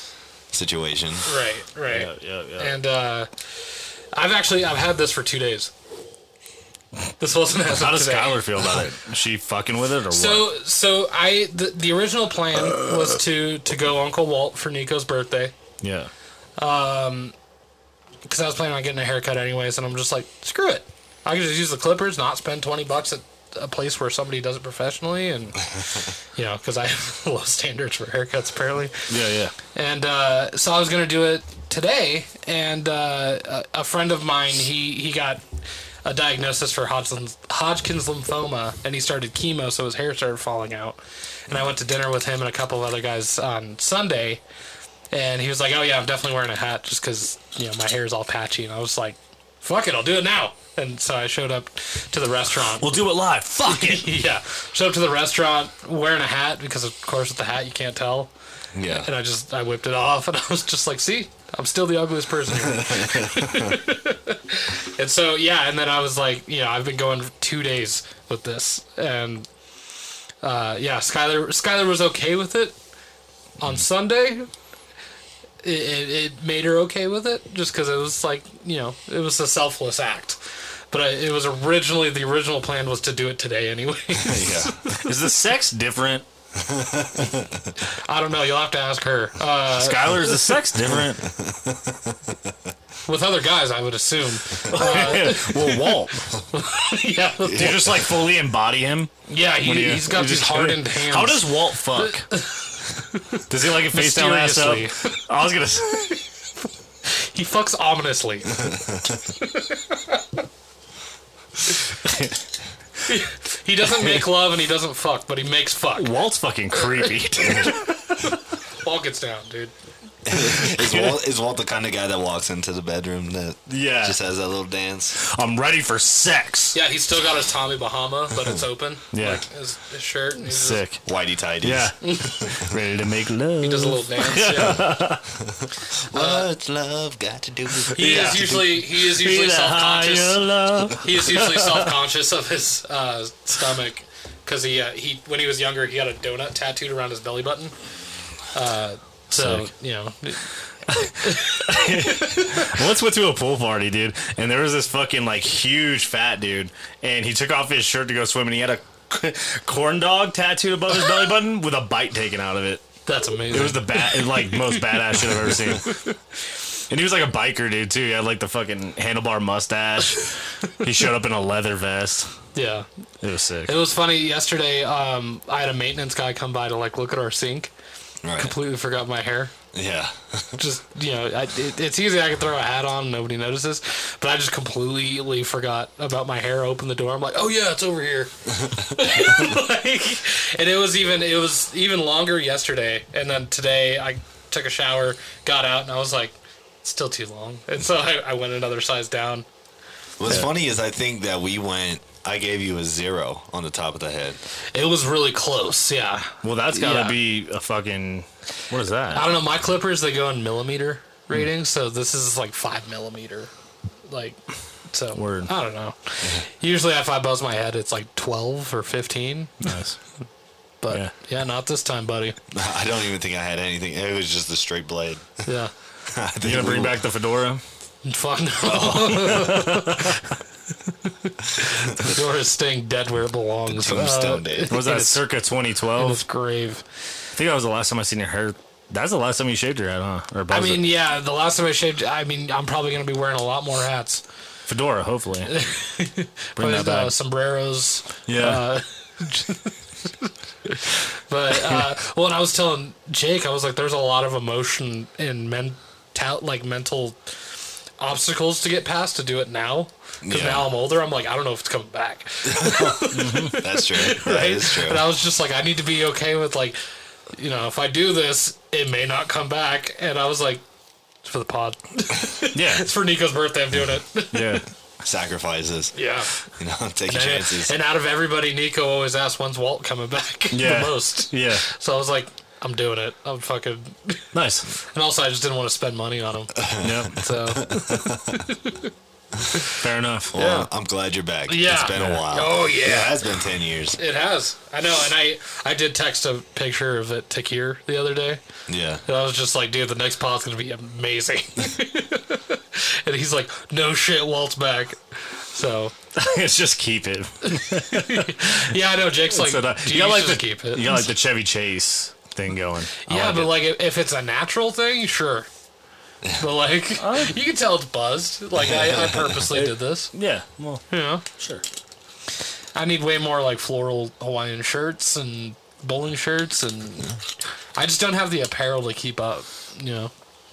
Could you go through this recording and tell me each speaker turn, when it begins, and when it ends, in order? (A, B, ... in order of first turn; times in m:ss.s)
0:00.5-0:01.3 A
0:01.2-0:03.3 B
0:01.9-0:02.8 C
0:04.1-0:05.7 B
0:07.2-0:08.5 B
0:07.7-0:10.5 C
0:10.1-0:15.5 B
0:15.8-0:16.1 C
0:16.6-0:17.3 B
0:18.3-0:29.1 B
0:29.1-0:29.5 C
0:29.7-0:35.4 B
0:36.0-0:44.4 B
0:45.1-0:53.0 B
0:52.6-0:54.2 C
0:53.6-0:58.3 B
0:58.7-0:59.1 A
0:58.9-1:09.5 B
1:02.6-1:03.8 A
1:10.4-1:12.8 B
1:13.6-1:14.5 B
1:15.6-1:20.4 B
1:20.9-1:25.1 B
1:24.1-1:24.8 A
1:25.0-1:26.3 C
1:26.6-1:27.7 A
1:28.0-1:30.5 B
1:29.7-1:31.3 C
1:30.9-1:32.5 A
1:33.1-1:37.9 B
1:34.6-1:36.4 C
1:37.4-1:42.3 C
1:37.6-1:37.9 A
1:39.3-1:45.2 B
1:43.5-1:46.2 C
1:45.8-1:46.2 B
1:47.0-1:50.4 B
1:52.0-1:52.4 C
1:53.1-1:56.1 B
1:56.0-1:57.9 C
1:56.8-1:59.7 B
2:00.2-2:05.2 A
2:00.6-2:01.2 C
2:03.7-2:04.2 C
2:05.2-2:06.8 C
2:06.7-2:10.8 B
2:09.1-2:09.4 C
2:10.4-2:11.0 C
2:11.0-2:11.9 A
2:11.6-2:15.3 C
2:12.0-2:12.6 B
2:13.6-2:15.0 B
2:15.6-2:18.6 A
2:16.1-2:16.5 B
2:17.9-2:22.0 C
2:17.9-2:20.4 B
2:21.0-2:27.8 B
2:28.5-2:32.8 B
2:29.3-2:29.7 C
2:30.9-2:42.8 C
2:43.1-2:46.1 B
2:43.5-2:46.0 C
2:46.9-2:52.3 C
2:52.6-2:52.9 B
2:53.2-2:53.8 C
2:53.7-2:57.7 B
2:58.2-2:58.6 A
2:58.4-2:59.5 B
2:59.7-3:00.6 A
3:00.6-3:19.5 B
3:20.2-3:24.4 A
3:24.7-3:27.2 B
3:26.4-3:29.3 C
3:29.1-3:33.5 B
3:34.0-3:39.7 B
3:35.2-3:35.5 C
3:39.6-3:40.0 C
3:40.8-3:42.4 B
3:42.5-3:45.4 A
3:45.5-3:45.7 B
3:46.0-3:47.0 A
3:46.4-3:47.6 C
3:48.0-3:50.2 B
3:48.7-3:50.2 C
3:50.9-3:55.2 B
3:53.7-3:54.8 A
3:54.7-3:56.2 C
3:56.0-3:56.8 B
3:57.4-4:00.9 C
4:00.5-4:04.2 B
4:04.7-4:05.5 C
4:05.5-4:17.2 B
4:06.6-4:07.1 C
4:08.3-4:08.7 C
4:18.0-4:26.8 B
4:20.2-4:20.7 A
4:22.4-4:25.1 A
4:23.1-4:23.6 C
4:27.3-4:30.6 B
4:31.2-4:34.6 B
4:32.5-4:32.9 C
4:34.3-4:34.7 C
4:35.0-4:36.0 A
4:36.0-4:36.3 B
4:36.5-4:37.8 A
4:37.1-4:48.9 B
4:40.5-4:41.6 C
4:44.3-4:44.7 C
4:46.6-4:48.4 A
4:46.8-4:47.2 C
4:49.5-4:49.8 B
4:49.8-4:50.4 C
4:50.3-4:54.0 A
4:50.4-4:50.7 B
4:51.5-4:53.2 B
4:51.9-4:52.2 C
4:54.0-4:58.4 B
4:58.7-4:59.0 A
4:59.1-5:05.9 B
5:06.2-5:13.6 C
5:07.4-5:11.1 B
5:13.0-5:15.5 B
5:16.4-5:20.1 B
5:17.0-5:17.4 C
5:18.6-5:19.5 A
5:19.5-5:21.6 C
5:20.9-5:21.2 B
5:22.8-5:27.2 B
5:27.8-5:30.1 B